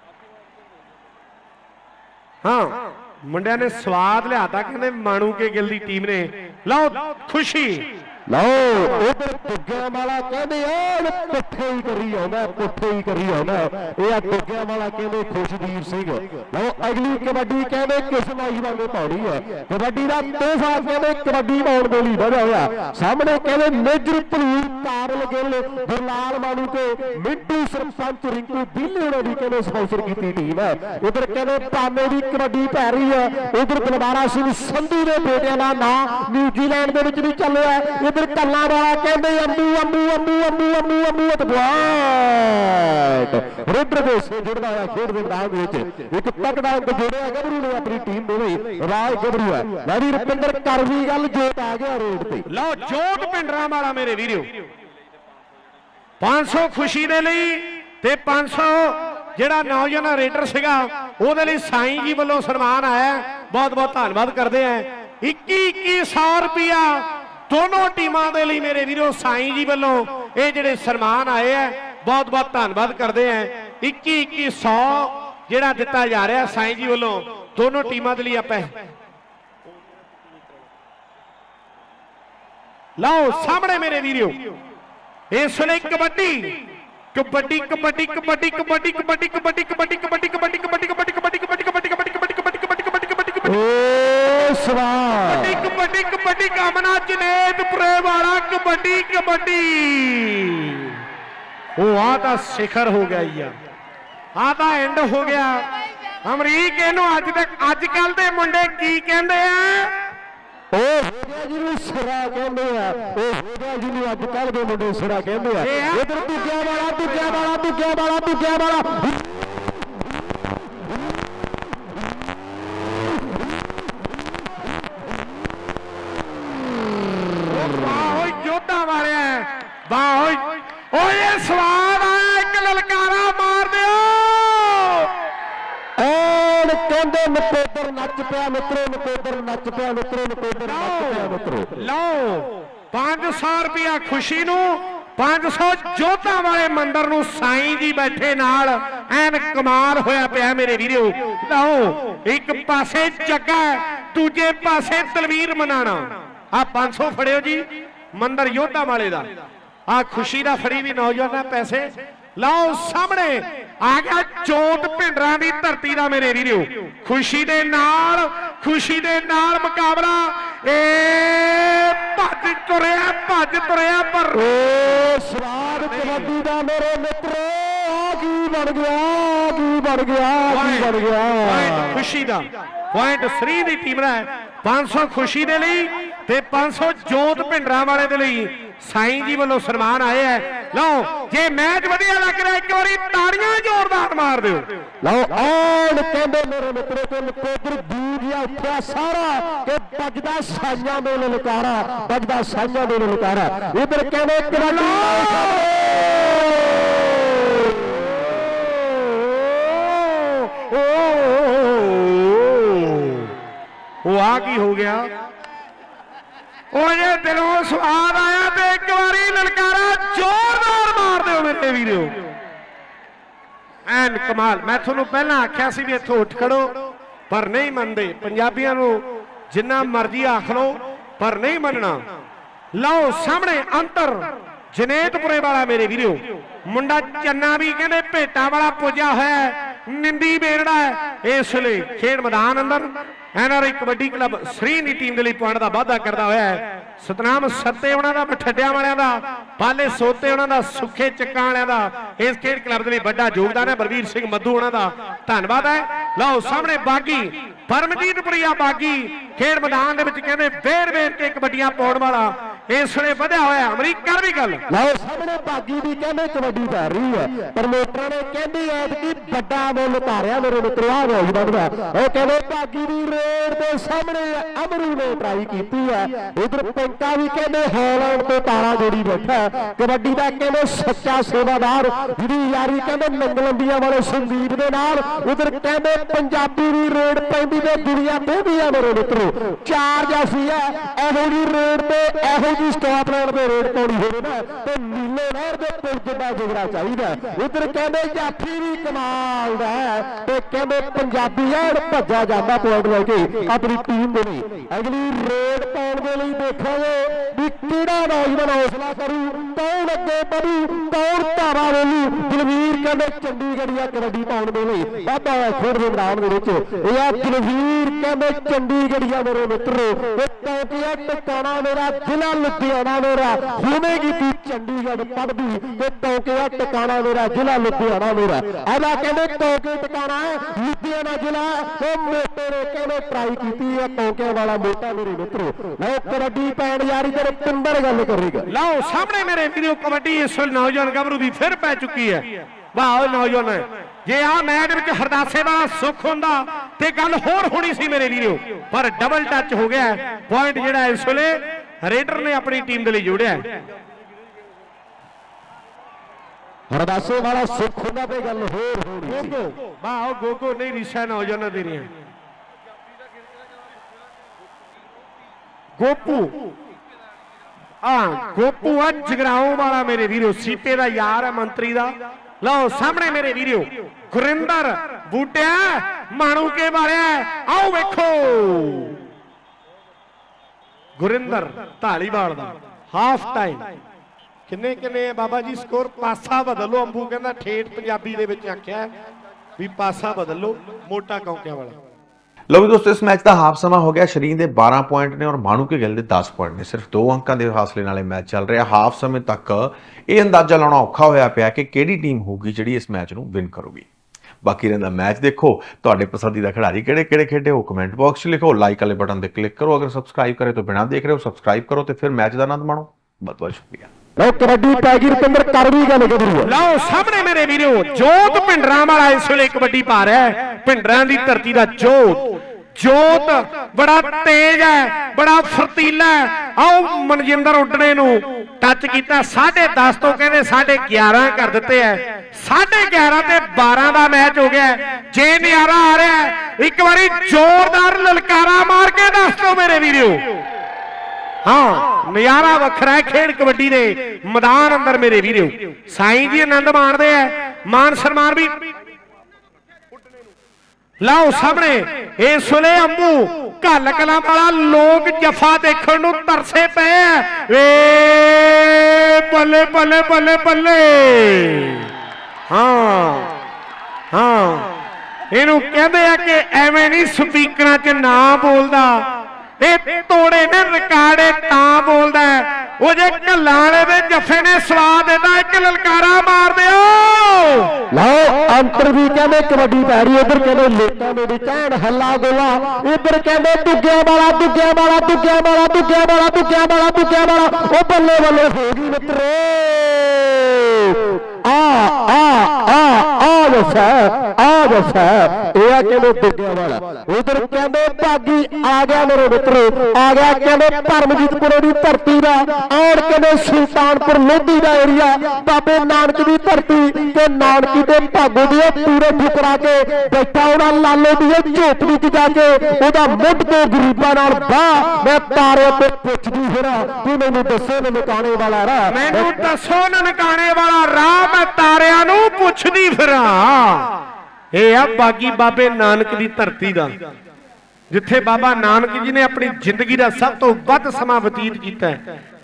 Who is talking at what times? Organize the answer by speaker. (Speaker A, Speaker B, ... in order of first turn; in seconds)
Speaker A: 2.4-7.9, 52.5-54.7, 56.2-78.7, 83.0-84.4, 85.3-86.6, 87.1-93.5, 95.3-101.0, 101.8-103.5, 104.4-105.6, 106.2-109.9, 115.6-116.2, 117.0-117.4, 127.5-135.1, 140.6-159.3, 159.9-174.4, 175.7-176.3, 180.5-180.9, 181.4-194.7, 204.8-205.9, 209.0-213.3, 214.0-215.1, 216.7-222.2, 223.9-226.7, 227.3-232.0, 232.8-264.6, 338.5-353.4, 359.1-361.9, 365.8-366.4, 367.8-378.9, 381.0-383.7, 384.5-388.9, 389.6-391.8, 416.4-440.4, 441.4-448.6, 451.0-461.9, 462.5-463.3, 464.1-464.7, 465.3-469.0, 469.6-477.7, 518.9-523.9, 524.5-527.0, 527.9-532.0
Speaker B: 8.3-52.5, 93.5-95.7, 110.7-119.4, 136.0-141.7, 174.3-182.0, 195.0-206.1, 264.7-338.5, 356.7-359.4, 414.2-416.5, 477.9-519.3
Speaker C: 392.5-403.9, 404.4-413.9